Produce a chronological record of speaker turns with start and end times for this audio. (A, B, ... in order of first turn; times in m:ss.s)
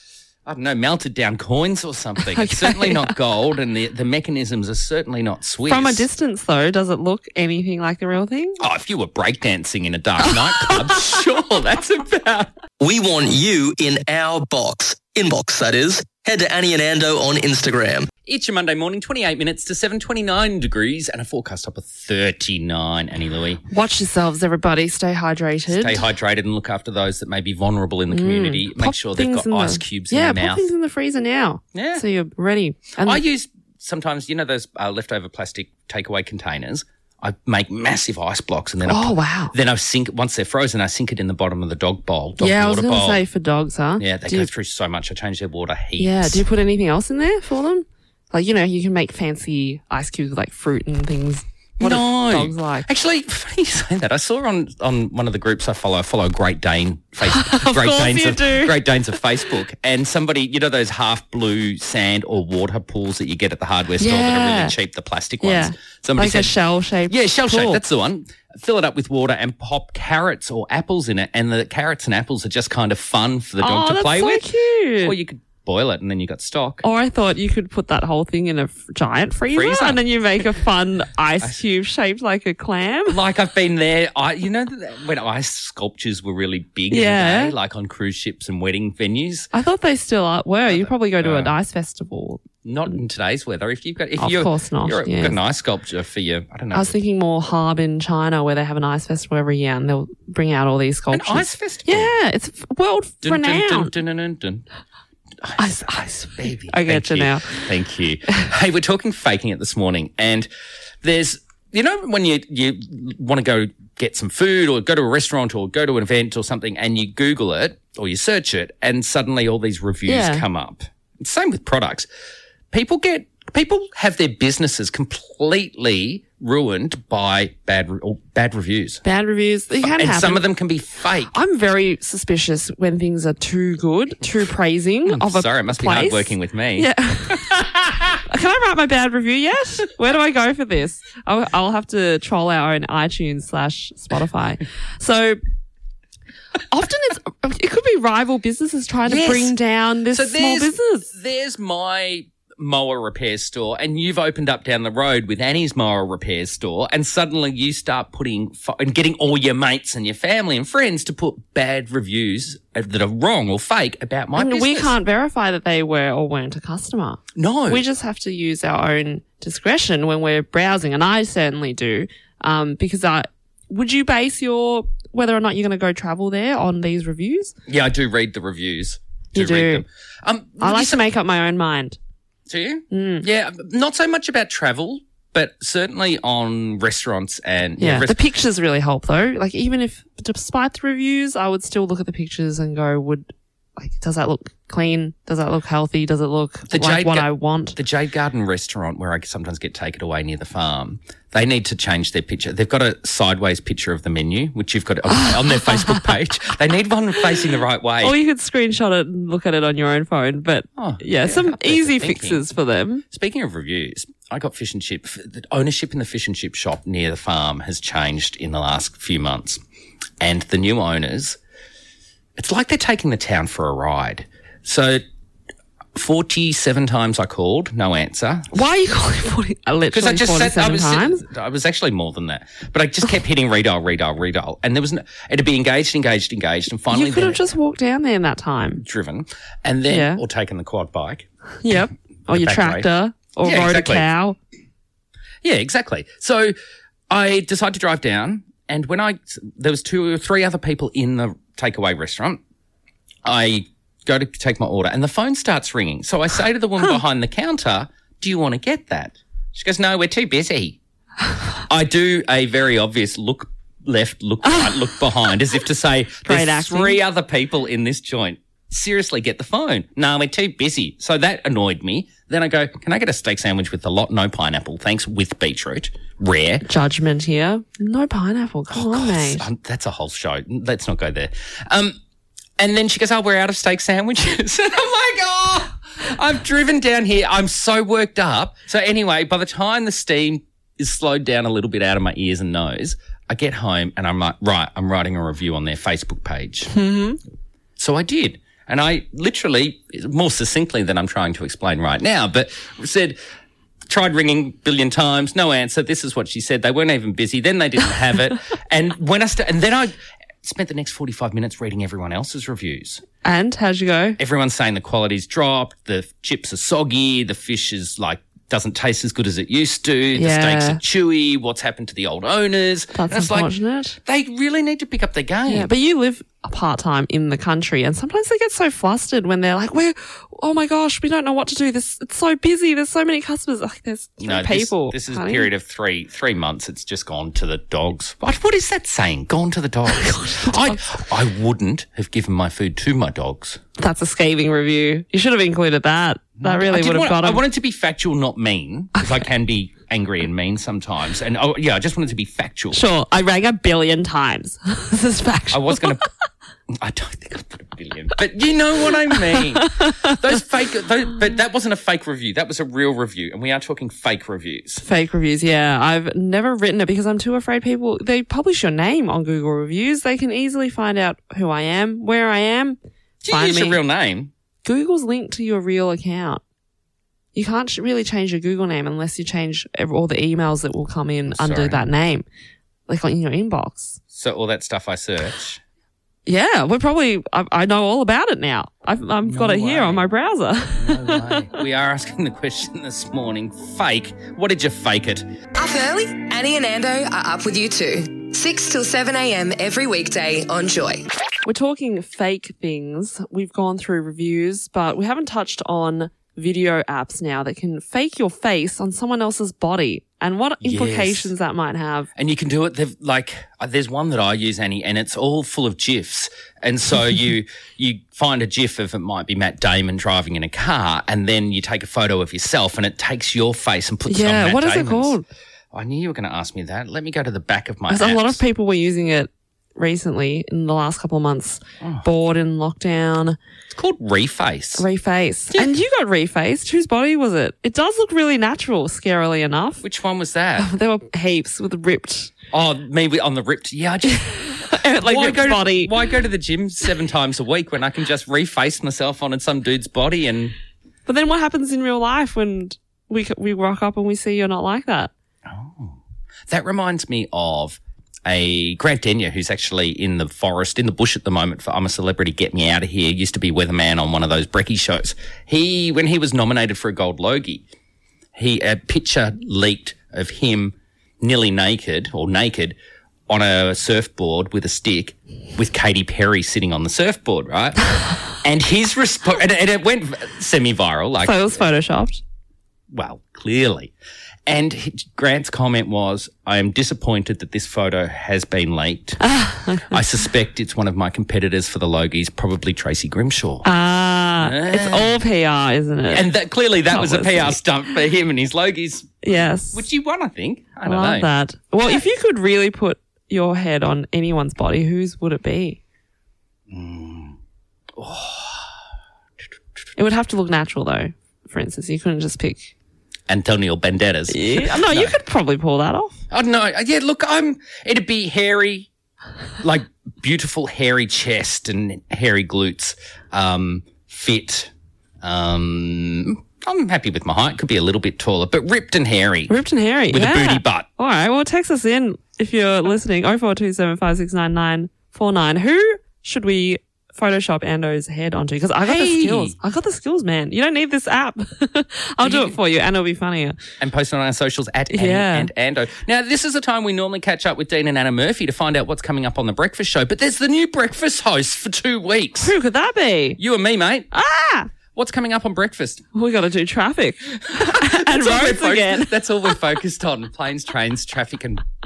0:00.5-0:06.1 A
0:02.2-0:03.2 B
0:05.7-0:08.6 B
0:08.6-0:12.5 A
0:10.3-0:11.1 B
0:12.8-0:18.1 C
0:18.3-0:23.6 A
0:23.7-0:26.0 B
0:25.7-0:30.7 A
0:28.1-0:33.2 B
0:31.7-0:32.0 A
0:33.0-0:43.2 A
0:38.8-0:39.5 B
0:42.4-0:44.5 B
0:44.0-0:46.4 A
0:46.0-0:52.9 B
0:51.8-1:06.6 A
0:57.2-0:58.8 B
1:04.0-1:04.8 B
1:05.4-1:07.8 B
1:07.1-1:14.5 A
1:13.6-1:15.2 B
1:15.0-1:16.8 A
1:16.8-1:23.2 B
1:19.5-1:20.0 A
1:23.1-1:29.5 A
1:26.9-1:27.6 B
1:29.5-1:32.9 B
1:30.7-1:31.5 A
1:32.6-1:37.0 A
1:34.2-1:35.4 B
1:36.7-1:43.9 B
1:41.1-1:42.1 A
1:43.2-1:44.7 A
1:45.4-1:50.5 A
1:45.6-1:47.7 B
1:51.0-2:02.1 A
2:00.1-2:00.4 B
2:02.7-2:09.0 A
2:09.0-2:10.5 B
2:09.8-2:11.3 A
2:11.3-2:17.7 B
2:15.1-2:18.2 A
2:18.3-2:25.4 B
2:26.7-2:31.1 B
2:29.1-2:29.6 A
2:30.1-2:45.0 A
2:44.4-2:57.6 B
2:47.4-2:47.8 A
2:57.7-3:01.0 A
2:59.3-2:59.8 B
3:00.6-3:02.0 B
3:02.5-3:08.2 A
3:02.9-3:03.3 B
3:07.8-3:17.8 B
3:16.7-3:28.2 A
3:25.1-3:26.2 B
3:28.0-3:33.0 B
3:30.8-3:32.4 A
3:33.1-3:39.6 A
3:40.2-3:41.4 A
3:42.4-3:45.0 A
3:45.9-3:48.5 A
3:48.5-3:51.3 B
3:49.9-3:57.4 A
3:56.9-3:58.8 B
3:58.8-4:01.3 A
3:59.9-4:00.2 B
4:01.6-4:04.4 B
4:02.3-4:02.9 A
4:03.4-4:04.1 A
4:05.4-4:06.5 A
4:07.1-4:12.4 A
4:13.2-4:20.8 A
4:21.7-4:36.6 A
4:24.4-4:24.8 B
4:26.3-4:27.0 B
4:36.6-4:39.4 B
4:38.7-4:42.0 A
4:42.6-4:56.7 A
4:56.7-4:57.2 B
4:57.8-5:03.2 A
5:03.9-5:13.0 A
5:13.2-5:14.2 B
5:14.2-5:25.7 A
5:20.1-5:20.8 B
5:22.9-5:24.0 B
5:25.5-5:35.5 B
5:34.2-5:43.6 A
5:39.9-5:41.0 B
5:43.8-5:47.4 B
5:46.4-5:52.8 A
5:52.7-5:56.0 B
5:55.5-5:56.0 A
5:56.7-6:04.8 A
5:59.6-6:00.2 B
6:04.8-6:13.8 B
6:13.2-6:14.3 A
6:14.6-6:16.4 B
6:17.4-6:22.2 B
6:21.3-6:21.8 A
6:22.9-6:24.0 B
6:24.1-6:25.6 A
6:26.3-6:31.5 B
6:29.3-6:30.1 A
6:30.8-6:35.3 A
6:35.6-6:41.1 D
6:41.4-6:52.1 B
6:50.6-6:51.3 A
6:52.2-7:05.2 A
7:04.1-7:05.3 B
7:05.7-7:08.4 A
7:07.9-7:13.4 B
7:11.8-7:12.1 A
7:13.7-7:14.8 A
7:14.8-7:19.8 B
7:19.8-7:20.7 A
7:20.6-7:22.3 B
7:22.5-7:30.6 A
7:24.1-7:25.9 B
7:31.1-7:35.1 B
7:35.5-7:47.6 A
7:48.4-7:52.8 A
7:53.3-8:01.6 A
8:01.2-8:02.2 B
8:02.9-8:03.9 A
8:04.5-8:09.2 A
8:09.2-8:10.0 B
8:09.9-8:13.7 A
8:13.6-8:16.3 B
8:14.4-8:15.2 A
8:16.1-8:21.3 A
8:16.9-8:17.6 B
8:19.2-8:19.9 B
8:20.8-8:25.8 B
8:26.7-8:27.4 A
8:28.0-8:28.7 A
8:30.0-8:32.7 B
8:33.3-8:35.2 A
8:34.3-8:36.2 B
8:36.3-8:38.9 A
8:39.6-8:44.7 A
8:45.2-8:49.6 A
8:49.5-9:03.6 B
8:50.1-8:50.9 A
8:58.8-8:59.6 A
9:02.2-9:02.6 A
9:03.8-9:12.6 A
9:04.9-9:05.5 B
9:12.4-9:13.4 B
9:13.4-9:14.1 A
9:14.1-9:14.7 B
9:14.9-9:16.1 A
9:16.1-9:19.6 B
9:17.5-9:21.6 A